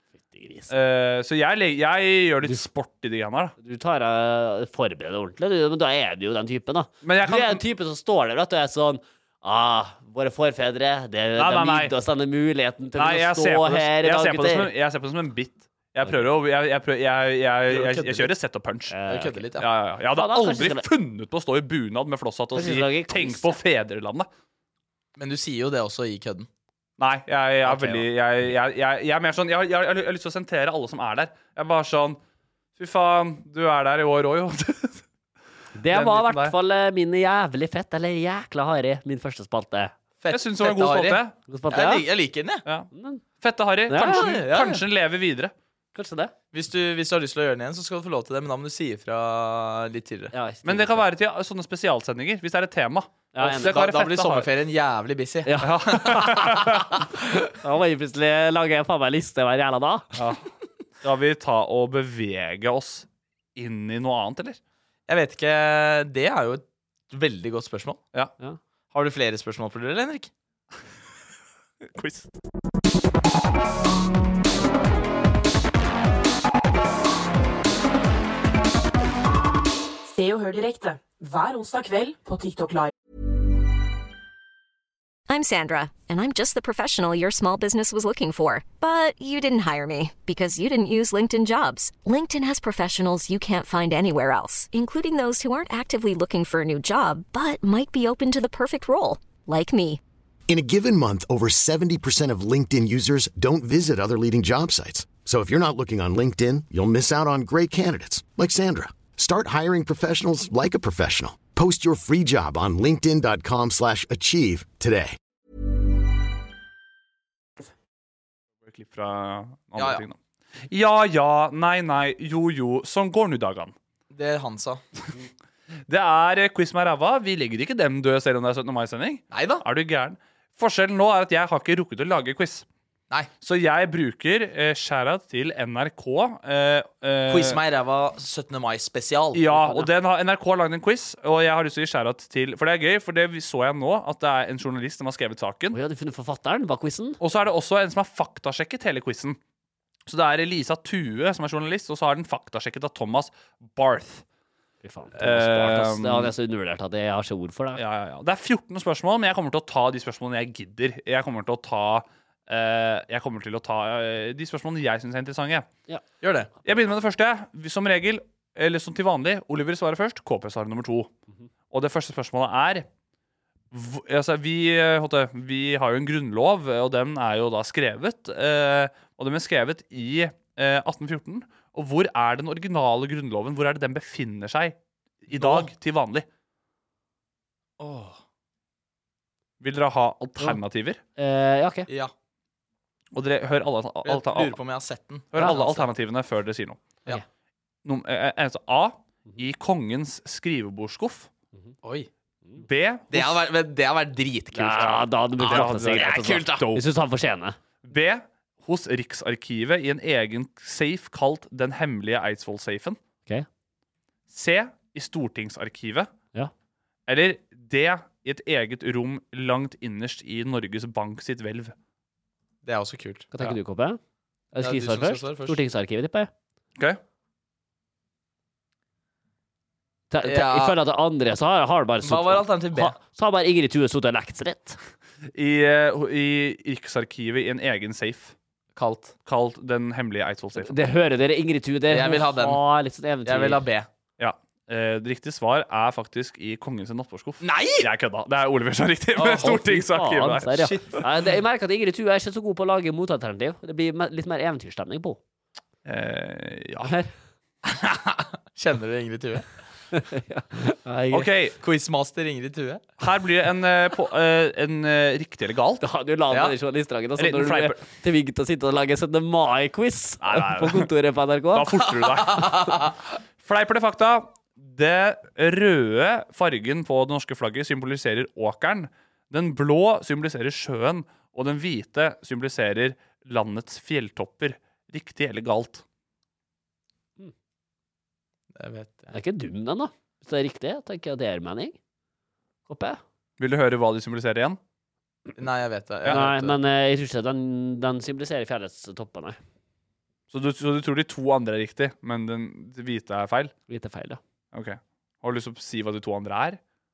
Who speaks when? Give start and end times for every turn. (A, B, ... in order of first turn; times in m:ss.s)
0:00.3-0:00.7 A
0:00.7-0:03.5 B
0:03.6-0:14.7 A
0:07.0-0:07.6 B
0:11.4-0:11.9 B
0:13.0-0:19.0 B
0:17.7-0:18.3 C
0:18.9-0:19.4 A
0:19.1-0:19.7 C
0:19.6-0:24.3 B
0:20.1-0:20.8 A
0:22.6-0:23.6 A
0:25.2-0:26.5 C
0:27.0-0:32.2 B
0:27.6-0:28.0 A
0:32.8-0:35.0 B
0:35.8-0:39.9 A
0:35.9-0:36.5 B
0:40.2-0:41.2 C
0:40.3-0:41.3 B
0:41.5-0:42.0 A
0:41.7-0:42.6 C
0:42.6-0:45.5 B
0:42.9-0:43.2 A
0:43.9-0:44.3 A
0:44.0-0:44.8 C
0:45.9-0:46.3 A
0:46.5-0:50.3 C
0:50.3-0:51.0 A
0:50.6-0:54.5 B
0:53.3-0:53.8 A
0:53.6-0:56.8 C
0:55.4-1:00.1 A
0:55.6-0:56.9 B
1:00.2-1:00.4 B
1:01.0-1:04.6 B
1:05.1-1:08.0 C
1:08.9-1:10.3 C
1:11.9-1:12.2 B
1:20.1-1:22.9 D
1:25.3-1:40.0 E
1:40.5-1:55.2 F
1:58.6-2:03.7 B
1:59.8-2:00.0 C
2:04.1-2:04.8 C
2:05.9-2:12.6 B
2:09.3-2:09.6 C
2:13.4-2:17.6 B
2:17.3-2:19.5 C
2:19.3-2:25.8 B
2:19.5-2:19.9 A
2:25.7-2:27.2 A
2:27.2-2:29.4 B
2:30.1-2:34.2 B
2:34.8-2:37.8 A
2:35.2-2:36.3 B
2:37.8-2:45.7 B
2:46.2-2:46.5 C
2:46.6-2:51.1 B
2:51.7-2:52.9 B
2:53.7-3:04.8 B
3:05.3-3:06.2 B
3:05.4-3:05.7 C
3:07.8-3:08.2 C
3:09.6-3:11.0 B
3:11.2-3:11.9 A
3:13.1-3:14.6 B
3:14.0-3:15.9 C
3:15.3-3:16.8 B
3:17.8-3:21.3 B
3:21.8-3:22.1 C
3:22.6-3:23.4 B
3:23.1-3:26.6 C
3:24.5-3:27.6 A
3:25.4-3:26.8 B
3:27.8-3:33.0 B
3:34.3-3:36.1 B
3:37.1-3:41.7 B
3:42.6-3:43.3 C
3:43.3-3:44.0 A
3:44.5-3:46.3 A
3:44.6-3:45.6 C
3:50.1-3:54.8 A
3:50.2-3:50.8 C
3:52.0-3:53.0 C
3:55.3-3:58.3 B
3:58.8-3:59.1 C
3:59.2-4:00.8 B
4:00.6-4:03.6 A
4:01.9-4:02.6 C
4:03.2-4:03.9 C
4:04.2-4:11.0 B
4:07.4-4:07.9 C
4:09.2-4:09.6 C
4:09.4-4:15.2 A
4:10.7-4:11.0 C
4:15.8-4:16.9 B
4:16.8-4:17.1 A
4:17.6-4:19.4 C
4:19.9-4:21.3 A
4:21.1-4:21.6 B
4:21.6-4:22.9 C
4:23.0-4:25.8 B
4:25.8-4:31.7 A
4:27.2-4:27.8 B
4:30.2-4:30.9 B
4:31.5-4:32.9 B
4:32.2-4:32.9 C
4:33.4-4:45.8 B
4:48.6-4:49.1 C
4:49.1-4:51.8 A
4:52.7-4:53.0 A
4:53.4-4:54.6 B
4:55.4-4:56.6 C
4:56.0-4:59.4 A
5:00.3-5:03.5 B
5:03.7-5:04.2 A
5:04.5-5:06.6 B